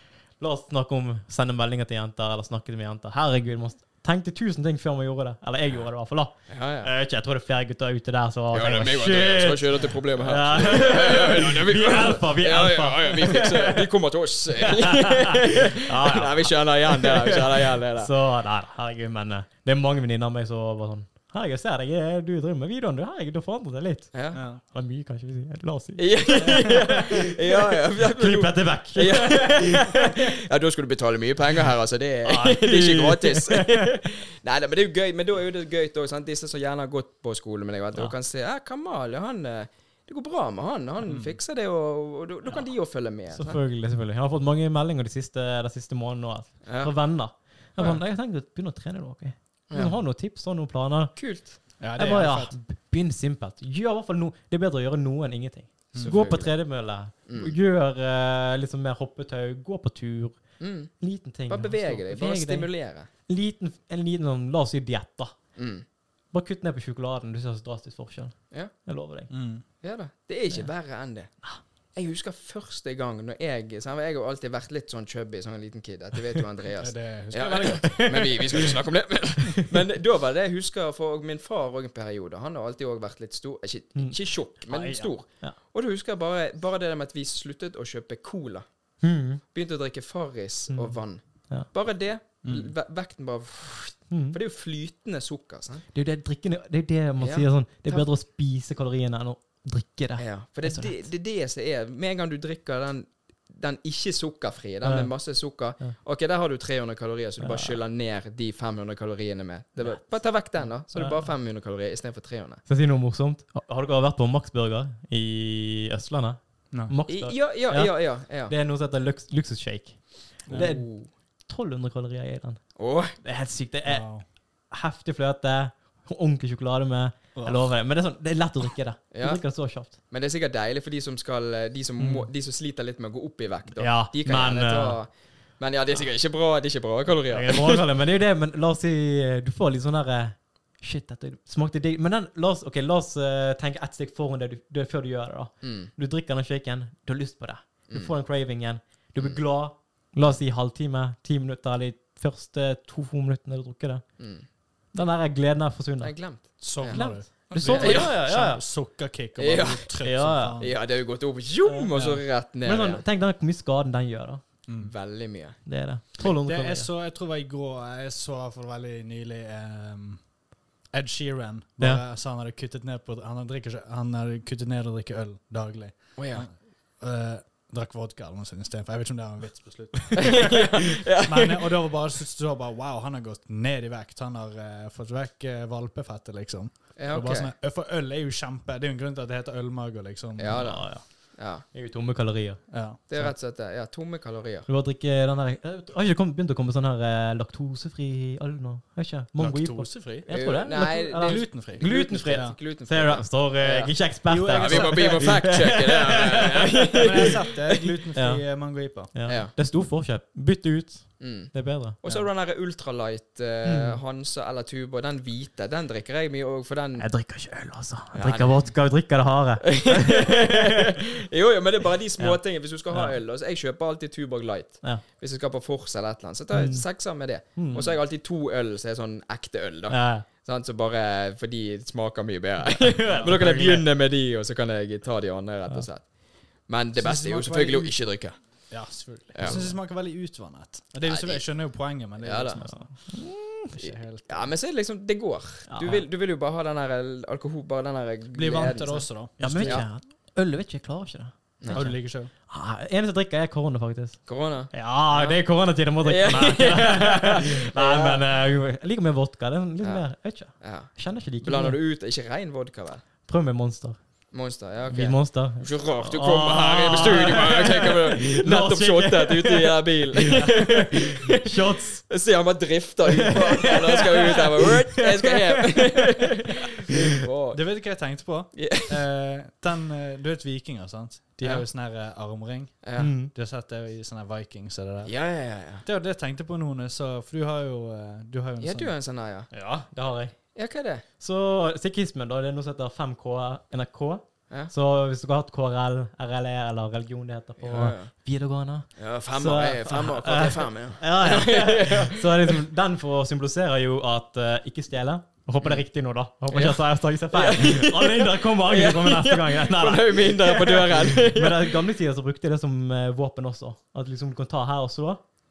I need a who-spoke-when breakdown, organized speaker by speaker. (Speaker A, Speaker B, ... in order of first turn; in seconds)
Speaker A: 0.4-13.9, 14.6-27.3, 28.1-30.2, 32.2-33.8, 43.3-51.2, 52.0-62.7, 63.2-65.3, 66.3-69.3, 77.8-78.6, 83.9-85.5, 89.0-89.4, 90.7-91.7, 94.1-94.4, 95.9-101.0, 104.8-105.1, 107.4-107.8, 109.8-111.2, 112.7-124.1, 124.7-129.9, 133.8-135.0, 137.3-154.0, 154.9-156.1, 156.8-158.6, 160.0-160.6, 161.6-164.4, 165.7-166.9, 190.5-193.3, 194.7-207.3, 208.1-211.9, 213.6-214.0, 217.0-220.8, 222.2-223.2, 226.5-226.9, 227.5-227.9, 229.9-230.2, 232.6-233.9, 242.6-243.8, 245.7-246.0, 249.4-261.8, 263.2-264.0, 264.9-272.1, 273.2-276.0, 283.0-283.3, 289.5-290.4, 291.2-315.2
Speaker B: 6.5-6.9, 8.5-18.1, 24.1-24.4, 26.0-43.6, 46.6-46.9, 49.7-50.0, 51.1-51.6, 55.9-56.5, 57.3-57.5, 60.6-60.9, 61.5-63.1, 65.5-65.8, 69.8-71.4, 71.9-88.6, 89.4-95.9, 97.2-98.1, 100.2-112.6, 117.1-118.5, 120.5-121.1, 122.8-123.1, 129.1-137.8, 145.6-145.9, 149.2-149.4, 154.2-154.4, 156.0-158.2, 159.4-160.0, 160.6-163.0, 164.8-165.6, 176.2-176.4, 180.2-181.8, 186.9-187.5, 190.4-191.6, 193.1-194.7, 200.3-207.3, 209.3-209.5, 211.2-217.2, 218.1-218.8, 219.6-238.7, 239.3-239.7, 241.0-242.6, 243.8-249.8, 251.6-251.9, 254.3-258.2, 259.8-263.0, 264.3-271.5, 272.1-277.6, 278.5-279.1, 282.8-283.1, 285.0-285.8, 288.6-289.5, 290.5-291.0, 297.6-298.1, 298.9-302.6, 305.6-305.9, 306.5-311.8
Speaker C: 24.3-24.6, 41.0-41.4, 51.8-52.5, 69.3-69.6, 76.8-78.7, 92.4-92.7, 120.5-120.8, 123.8-124.2, 127.3-127.7, 156.6-160.7, 164.7-164.9, 166.2-170.3, 170.9-180.6, 181.2-190.8, 192.7-193.2, 199.4-200.3, 201.2-202.6, 204.2-205.6, 207.0-209.1, 212.0-212.3, 233.1-233.4, 236.9-238.0, 238.7-243.2, 243.8-244.5, 248.3-249.8, 251.7-252.3, 277.5-285.1, 285.8-288.9